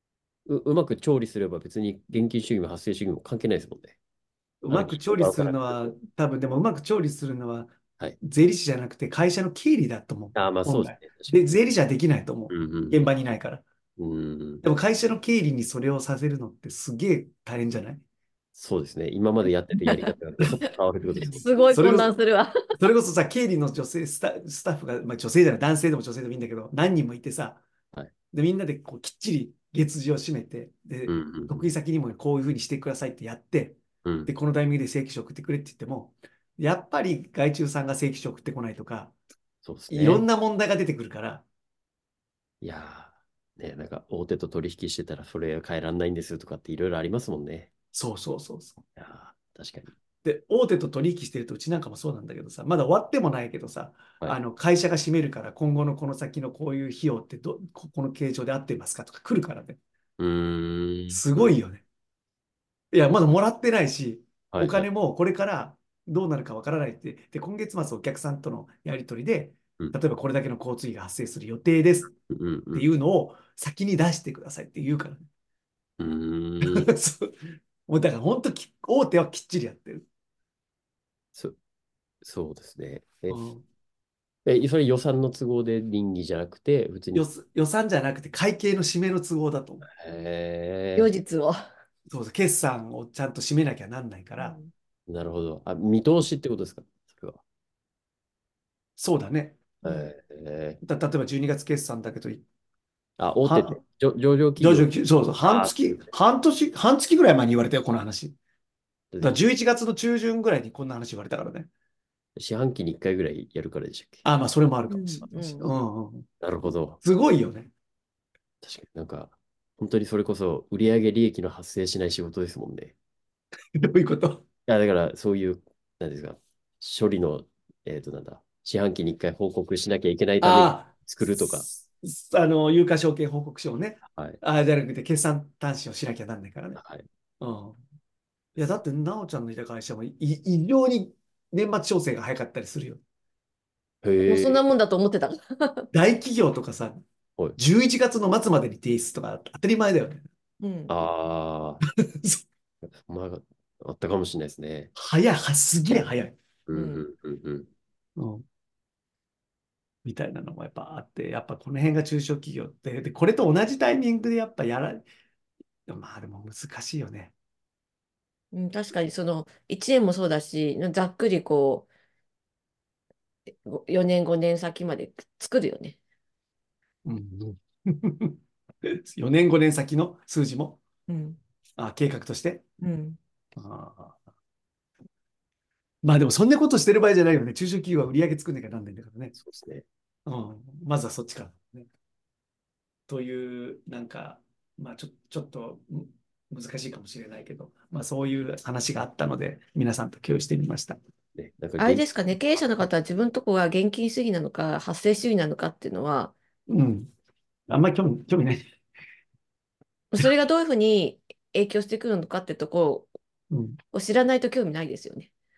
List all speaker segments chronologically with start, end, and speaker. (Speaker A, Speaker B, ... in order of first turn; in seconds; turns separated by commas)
Speaker A: 0.5-4.0, Speaker B: 4.6-13.6, Speaker A: 4.7-5.9, Speaker A: 10.3-11.4, Speaker A: 12.5-13.1, Speaker A: 14.0-14.6, Speaker B: 14.6-18.0, Speaker A: 18.5-21.5, Speaker C: 19.8-20.1, Speaker C: 21.3-22.6, Speaker B: 21.7-22.1, Speaker B: 22.8-27.6, Speaker B: 28.3-39.1, Speaker A: 31.1-31.7, Speaker A: 34.0-34.3, Speaker A: 39.6-40.2, Speaker B: 39.9-41.5, Speaker A: 42.6-47.7, Speaker B: 47.9-48.8, Speaker A: 49.0-49.9, Speaker B: 50.2-59.8, Speaker A: 60.2-61.6, Speaker B: 61.1-61.8, Speaker B: 62.9-72.1, Speaker A: 64.5-64.9, Speaker A: 72.2-72.9, Speaker B: 72.7-75.2, Speaker A: 76.0-76.9, Speaker B: 76.6-80.0, Speaker A: 82.2-83.4, Speaker B: 83.3-83.6, Speaker A: 84.4-87.2, Speaker B: 87.1-89.8, Speaker A: 89.9-91.1, Speaker C: 91.0-91.6, Speaker B: 92.1-94.6, Speaker C: 94.4-94.7, Speaker A: 95.1-97.4, Speaker B: 99.0-99.7, Speaker A: 99.8-100.8, Speaker B: 100.8-102.4, Speaker A: 103.2-104.9, Speaker B: 103.4-103.8, Speaker B: 104.6-108.4, Speaker A: 105.4-106.0, Speaker A: 109.1-109.4, Speaker B: 109.2-111.7, Speaker A: 112.4-114.2, Speaker B: 114.2-116.3, Speaker C: 114.9-115.7, Speaker A: 116.4-117.0, Speaker B: 117.0-117.7, Speaker A: 118.6-122.9, Speaker B: 123.8-124.4, Speaker A: 124.7-131.6, Speaker B: 130.4-136.8, Speaker A: 134.1-134.4, Speaker A: 136.8-137.1, Speaker B: 137.4-137.8, Speaker B: 138.6-143.0, Speaker A: 144.0-144.6, Speaker C: 144.2-145.9, Speaker B: 145.9-147.0, Speaker B: 147.6-150.2, Speaker C: 150.6-150.9, Speaker A: 150.9-151.8, Speaker B: 152.1-152.4, Speaker A: 152.8-154.9, Speaker B: 154.9-156.4, Speaker A: 156.7-157.7, Speaker C: 156.7-157.0, Speaker B: 158.2-158.4, Speaker B: 160.0-165.1, Speaker B: 165.9-167.3, Speaker C: 168.5-171.9, Speaker C: 173.5-176.0, Speaker B: 177.0-180.8, Speaker C: 181.1-181.4, Speaker B: 181.8-182.6, Speaker C: 182.8-183.2, Speaker B: 183.6-184.2, Speaker B: 186.0-189.3, Speaker A: 189.3-189.8, Speaker B: 190.2-191.9, Speaker B: 193.1-201.0, Speaker A: 201.3-202.8, Speaker C: 201.8-206.3, Speaker B: 206.7-207.1, Speaker B: 207.7-208.6, Speaker C: 210.1-213.1, Speaker B: 213.5-213.8, Speaker C: 213.9-215.3